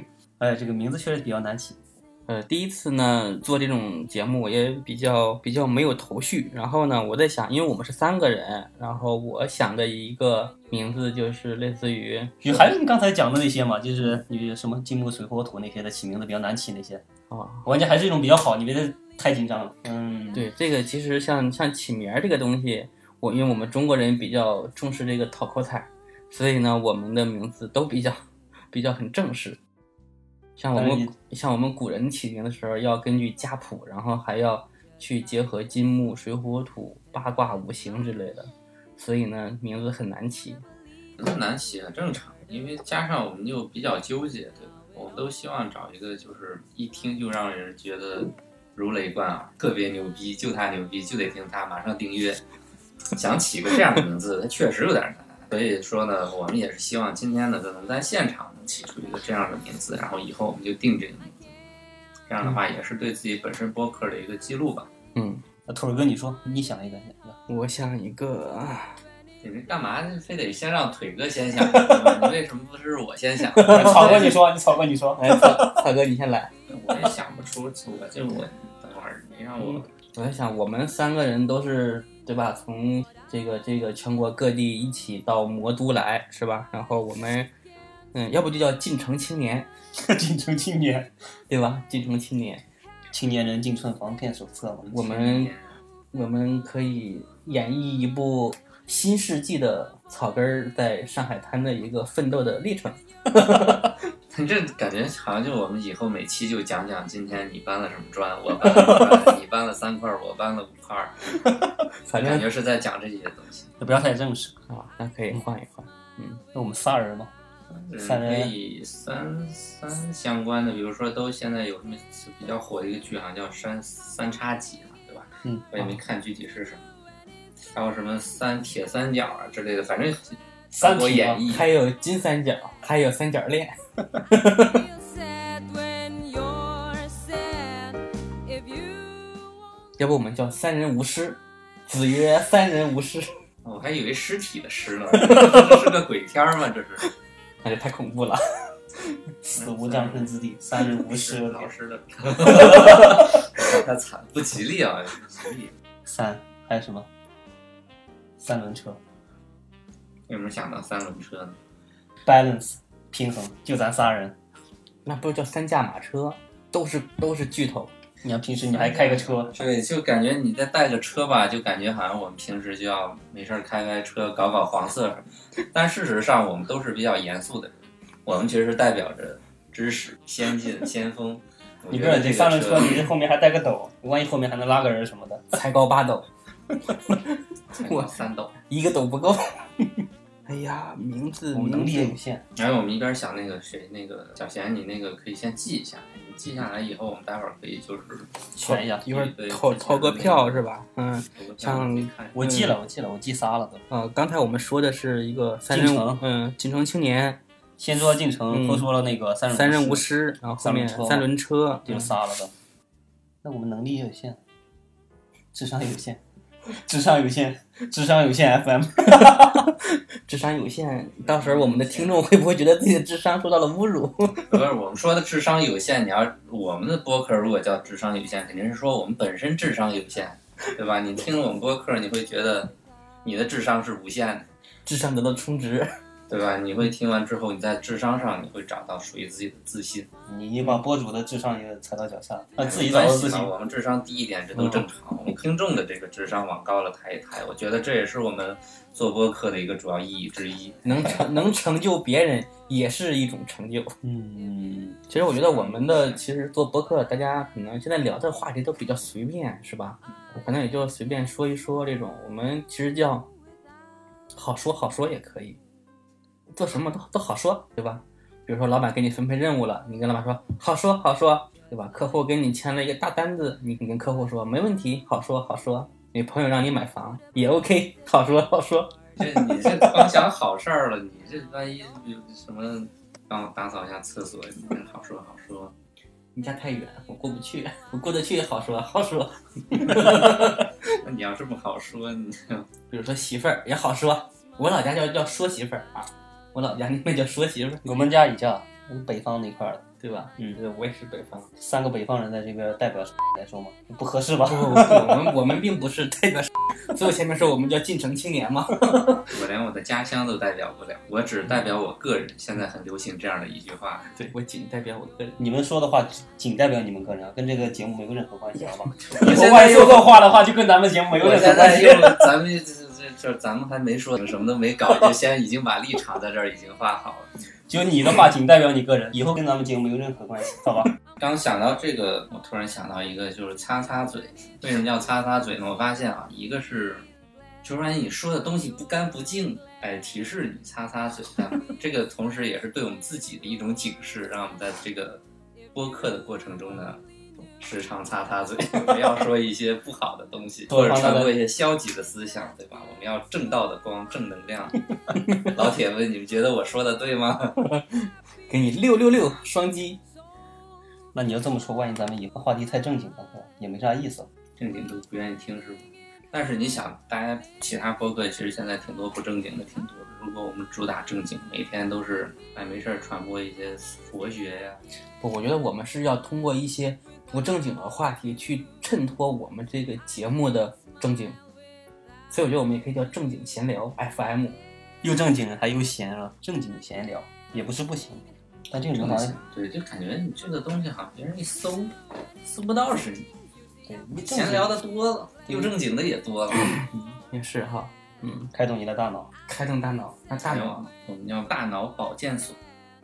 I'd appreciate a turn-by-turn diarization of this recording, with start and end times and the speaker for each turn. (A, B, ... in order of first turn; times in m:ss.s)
0:00.4-0:01.8 A
0:02.3-0:12.8 B
0:12.4-0:17.0 A
0:17.3-0:17.7 B
0:17.6-0:20.5 A
0:20.3-0:28.2 B
0:28.7-0:29.6 B
0:30.6-0:40.6 B
0:30.7-0:31.1 A
0:41.2-0:52.4 C
0:53.1-1:01.5 C
1:02.3-1:04.9 C
1:05.1-1:05.4 B
1:05.7-1:07.4 A
1:07.5-1:09.0 B
1:09.4-1:14.4 C
1:11.6-1:12.2 B
1:13.5-1:14.4 B
1:13.6-1:15.8 A
1:15.2-1:16.5 B
1:16.7-1:19.9 C
1:19.7-1:27.5 B
1:28.1-1:29.7 B
1:30.0-1:31.1 A
1:31.5-1:32.6 B
1:33.1-1:35.1 A
1:34.9-1:35.8 C
1:34.9-1:35.5 B
1:36.1-1:44.0 B
1:44.3-1:51.2 C
1:48.6-1:49.2 B
1:52.0-1:52.4 B
1:52.1-1:53.7 C
1:53.8-1:54.5 A
1:54.7-1:56.4 B
1:56.5-1:57.3 A
1:57.7-2:06.8 C
1:58.0-1:58.5 A
2:05.4-2:05.8 A
2:07.7-2:11.7 C
2:10.8-2:11.4 A
2:11.5-2:14.8 B
2:14.8-2:19.6 D
2:20.0-2:23.3 B
2:23.6-2:27.0 C
2:25.1-2:25.7 B
2:27.6-2:29.0 B
2:29.4-2:31.7 A
2:29.6-2:30.3 C
2:31.0-2:35.7 C
2:36.0-2:37.1 A
2:38.4-2:39.0 A
2:40.3-2:41.6 C
2:42.2-2:44.4 A
2:45.0-2:47.9 B
2:48.2-2:49.5 A
2:48.7-2:49.3 B
2:49.5-3:03.1 C
3:01.9-3:05.4 A
3:05.5-3:06.3 B
3:07.1-3:08.1 B
3:07.7-3:08.5 C
3:08.7-3:09.6 B
3:10.4-3:12.2 B
3:11.5-3:12.4 A
3:12.6-3:20.7 C
3:18.6-3:19.1 A
3:18.6-3:22.8 B
3:21.2-3:22.4 C
3:22.3-3:23.8 A
3:23.9-3:27.4 B
3:25.7-3:26.2 A
3:27.8-3:31.3 A
3:28.5-3:28.9 B
3:29.5-3:32.1 B
3:31.8-3:32.5 A
3:33.4-3:34.4 A
3:35.5-3:36.2 A
3:36.8-3:39.7 A
3:39.2-3:44.6 B
3:41.2-3:42.2 C
3:44.5-3:52.7 C
3:53.2-3:54.5 C
3:54.8-3:55.9 B
3:56.3-4:00.1 C
4:00.3-4:03.5 A
4:02.6-4:11.3 C
4:04.6-4:04.8 B
4:10.8-4:13.9 B
4:14.0-4:15.0 A
4:15.1-4:23.3 B
4:15.3-4:16.2 C
4:24.3-4:25.6 B
4:26.5-4:40.0 B
4:39.2-4:45.7 C
4:46.3-4:50.7 B
4:50.2-4:52.7 C
4:52.9-4:58.1 B
4:57.8-4:59.8 A
5:00.0-5:01.5 B
5:01.6-5:05.4 A
5:04.5-5:09.2 B
5:09.3-5:14.1 C
5:14.1-5:15.4 B
5:15.4-5:22.3 A
5:18.7-5:19.4 B
5:19.2-5:20.2 C
5:21.2-5:27.3 C
5:27.7-5:30.9 A
5:31.2-5:37.0 C
5:37.6-5:45.2 C
5:45.7-5:47.0 C
5:47.6-5:54.8 C
5:50.7-5:51.4 A
5:55.2-5:55.5 B
5:55.5-5:57.6 C
5:57.6-6:00.0 B
6:01.1-6:04.3 A
6:04.6-6:14.8 C
6:15.2-6:21.4 B
6:22.3-6:24.6 B
6:25.0-6:29.4 A
6:28.8-6:33.3 C
6:33.8-6:34.8 A
6:34.3-6:36.8 C
6:35.5-6:35.7 A
6:36.6-6:38.5 B
6:38.5-6:39.3 A
6:39.5-6:40.9 B
6:40.4-6:42.6 C